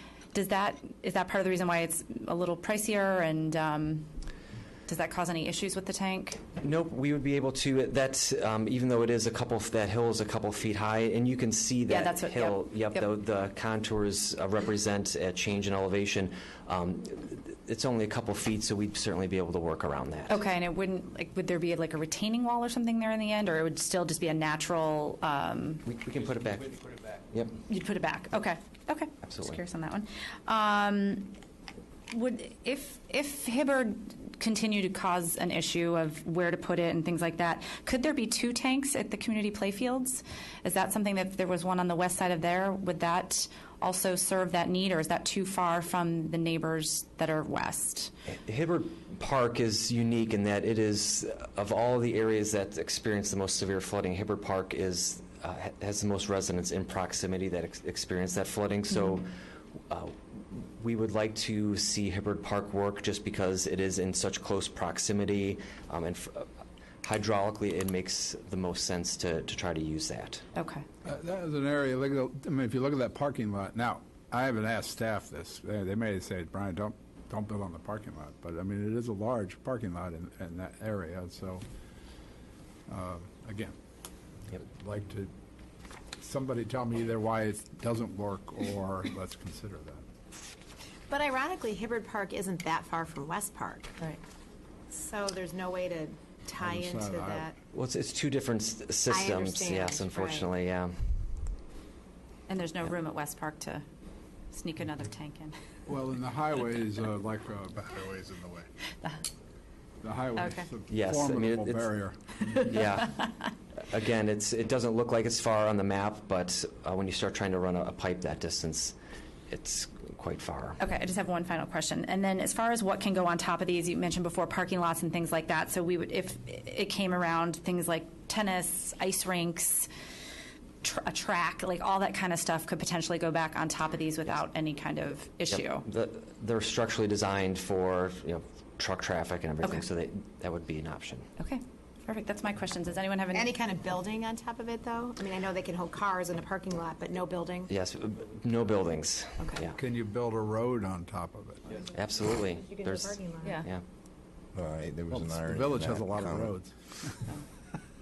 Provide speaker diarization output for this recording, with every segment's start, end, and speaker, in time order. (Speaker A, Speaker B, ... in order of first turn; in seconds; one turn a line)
Speaker A: 0.3-4.1
Speaker A: 4.9-6.4
Speaker B: 6.6-20.4
Speaker A: 11.9-13.0
Speaker A: 20.3-25.9
Speaker B: 25.9-27.5
Speaker A: 27.7-31.3
Speaker B: 29.2-29.6
Speaker A: 32.1-48.1
Speaker B: 48.3-59.3
Speaker B: 59.9-66.5
Speaker B: 67.0-70.4
Speaker A: 70.5-70.8
Speaker C: 71.0-81.6
Speaker C: 82.9-83.8
Speaker C: 84.5-85.3
Speaker C: 86.2-90.1
Speaker D: 91.1-94.0
Speaker D: 94.9-97.5
Speaker C: 96.6-97.5
Speaker B: 97.7-100.9
Speaker D: 99.1-100.4
Speaker A: 102.5-103.8
Speaker A: 104.5-105.6
Speaker C: 105.9-108.6
Speaker C: 110.0-112.4
Speaker A: 110.4-110.7
Speaker B: 110.9-111.8
Speaker B: 112.6-113.3
Speaker B: 113.9-118.9
Speaker B: 119.5-120.8
Speaker A: 120.8-129.9
Speaker A: 130.8-135.8
Speaker B: 135.5-141.3
Speaker A: 141.4-143.5
Speaker D: 143.3-147.7
Speaker B: 147.7-149.8
Speaker C: 149.8-151.8
Speaker B: 151.9-153.8
Speaker D: 152.7-153.7
Speaker E: 154.6-156.5
Speaker C: 155.1-157.3